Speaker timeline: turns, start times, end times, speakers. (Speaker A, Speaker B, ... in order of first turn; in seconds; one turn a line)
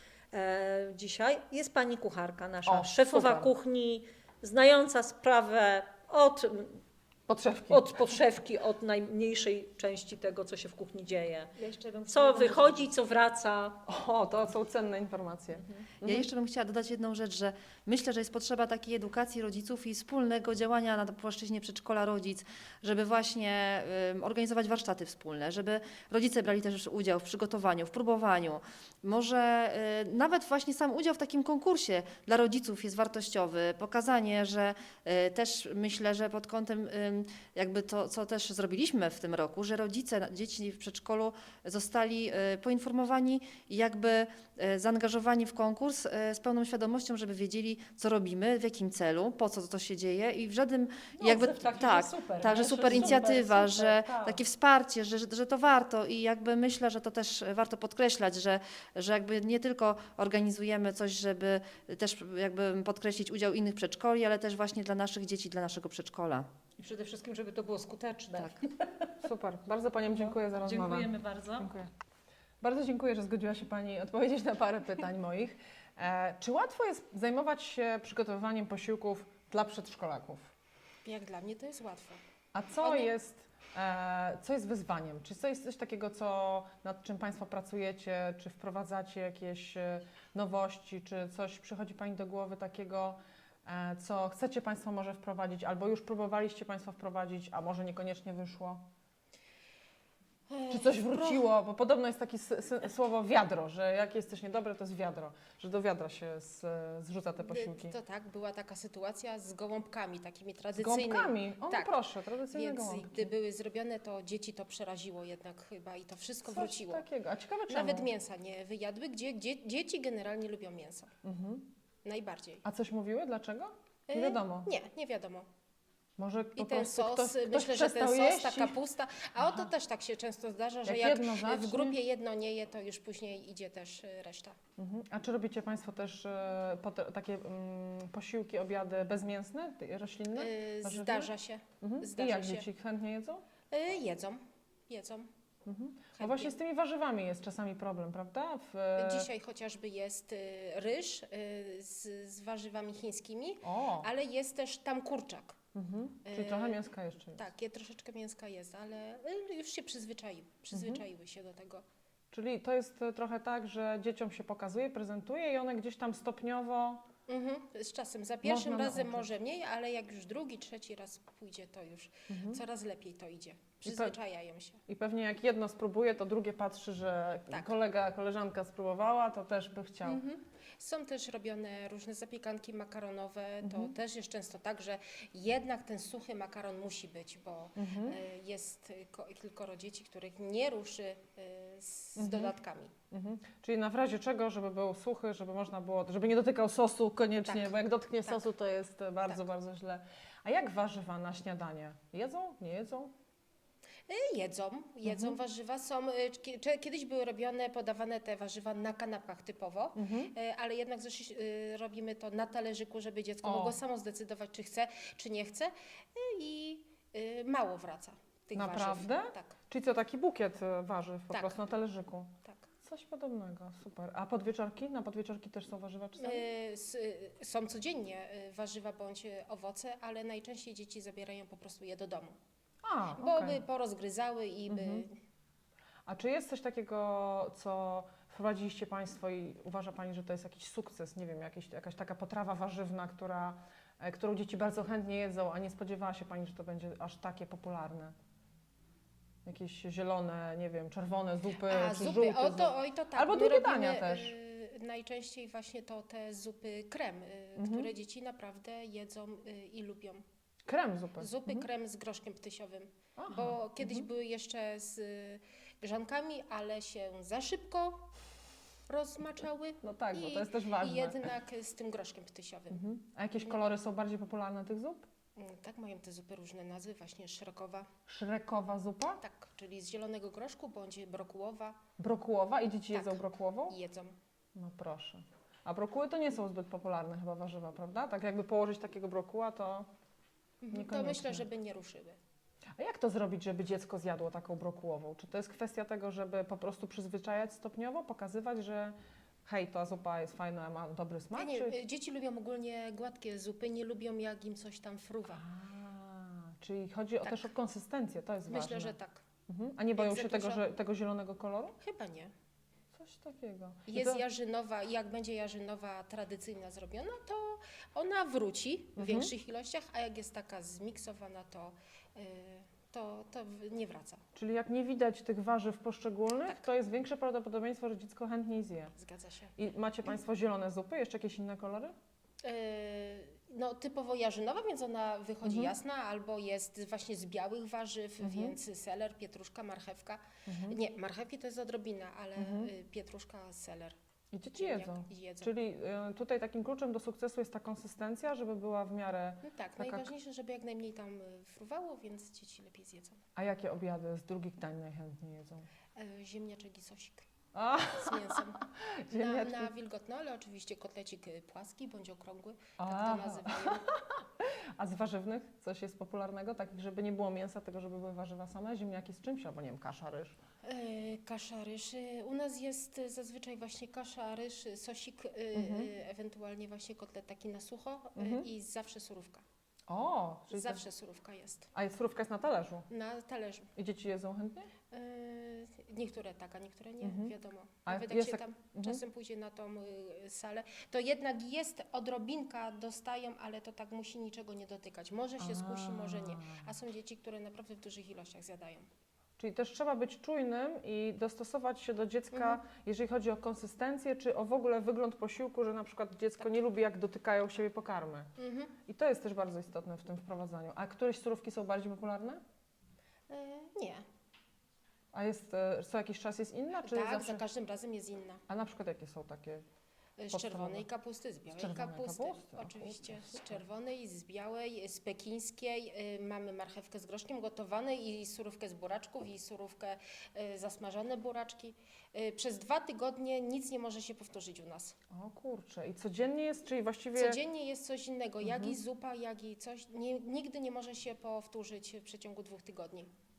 Speaker A: 0.3-6.8
Speaker B: 2.7-3.5
Speaker B: 7.3-7.9
Speaker A: 7.7-11.5
Speaker B: 11.6-12.8
Speaker A: 12.1-13.8
Speaker B: 13.9-16.3
Speaker C: 16.0-66.5
Speaker A: 51.2-54.4
Speaker B: 52.5-53.4
Speaker A: 66.8-69.2
Speaker B: 69.2-71.9
Speaker A: 70.1-71.7
Speaker B: 72.6-80.5
Speaker D: 81.0-82.2
Speaker B: 82.5-98.8
Speaker D: 82.8-83.1
Speaker D: 100.5-101.4
Speaker B: 100.7-108.0
Speaker D: 107.4-112.0
Speaker B: 110.8-113.3
Speaker D: 112.5-117.0
Speaker B: 116.5-118.1
Speaker D: 117.7-121.1
Speaker B: 121.2-121.7
Speaker D: 122.0-122.6
Speaker B: 122.7-124.7
Speaker D: 124.1-125.5
Speaker B: 126.2-128.8
Speaker D: 126.6-134.6
Speaker B: 129.4-129.7
Speaker B: 130.8-132.0
Speaker B: 134.8-141.3
Speaker D: 140.3-142.7
Speaker B: 141.8-143.4
Speaker D: 143.7-145.3
Speaker B: 145.7-149.3
Speaker D: 146.2-146.6
Speaker D: 149.0-155.6
Speaker B: 153.6-154.1
Speaker B: 155.8-157.4
Speaker D: 156.3-156.8
Speaker D: 157.4-161.8
Speaker B: 160.7-161.0
Speaker B: 162.3-167.0
Speaker D: 167.3-174.8
Speaker B: 168.4-169.3
Speaker B: 172.3-172.6
Speaker B: 173.8-174.2
Speaker B: 174.9-180.2
Speaker D: 180.1-192.9
Speaker B: 183.6-183.9
Speaker B: 187.8-188.2
Speaker B: 192.2-192.5
Speaker B: 193.1-203.1
Speaker D: 197.5-198.5
Speaker D: 204.1-219.6
Speaker B: 205.1-205.4
Speaker B: 209.9-210.3
Speaker B: 213.4-213.8
Speaker B: 218.5-222.3
Speaker D: 221.3-221.6
Speaker B: 222.8-226.4
Speaker D: 226.2-232.4
Speaker B: 232.8-233.6
Speaker D: 233.2-235.2
Speaker B: 234.7-235.1
Speaker B: 236.1-248.2
Speaker B: 249.4-254.3
Speaker D: 251.7-260.2
Speaker B: 257.6-257.9
Speaker B: 260.7-261.7
Speaker D: 261.2-268.1
Speaker B: 263.2-264.1
Speaker D: 268.9-272.8
Speaker B: 269.8-271.2
Speaker B: 272.7-275.1
Speaker D: 275.4-277.9
Speaker B: 278.1-279.2
Speaker D: 279.2-281.8
Speaker B: 282.0-283.8
Speaker D: 282.9-284.2
Speaker B: 284.6-289.9
Speaker D: 290.6-292.2
Speaker B: 290.7-291.4
Speaker B: 292.8-298.9
Speaker B: 299.5-301.8
Speaker D: 301.4-305.4
Speaker B: 305.4-308.9
Speaker D: 307.2-307.5
Speaker D: 308.5-309.2
Speaker B: 309.5-311.8
Speaker D: 310.0-310.6
Speaker D: 311.8-312.3
Speaker B: 312.9-314.2
Speaker D: 313.9-324.2
Speaker B: 319.0-319.3
Speaker B: 324.4-328.9
Speaker D: 329.0-329.5
Speaker B: 329.6-331.9
Speaker D: 332.4-344.0
Speaker B: 335.4-335.7
Speaker B: 338.2-338.6
Speaker B: 340.5-340.8
Speaker B: 342.4-342.7
Speaker B: 344.3-350.1
Speaker D: 344.6-345.5
Speaker D: 349.4-353.2
Speaker B: 353.4-355.7
Speaker D: 356.0-357.3
Speaker B: 357.5-359.7
Speaker D: 357.9-363.9
Speaker B: 362.8-370.4
Speaker D: 370.6-379.4
Speaker B: 375.5-375.9
Speaker B: 378.2-378.5
Speaker B: 379.9-380.8
Speaker D: 380.5-381.7
Speaker B: 381.8-382.9
Speaker D: 382.9-383.7
Speaker B: 383.8-384.7
Speaker D: 384.9-398.9
Speaker B: 387.0-387.3
Speaker B: 387.9-389.0
Speaker B: 395.4-396.6
Speaker B: 399.4-408.3
Speaker D: 402.3-402.6
Speaker D: 408.4-408.8
Speaker B: 408.9-412.4
Speaker D: 413.3-414.0
Speaker B: 415.1-417.4
Speaker D: 416.9-418.4
Speaker B: 418.5-419.6
Speaker D: 420.2-435.0
Speaker B: 420.3-420.9
Speaker B: 421.5-423.6
Speaker B: 435.1-437.4
Speaker D: 437.2-443.1
Speaker B: 438.4-438.8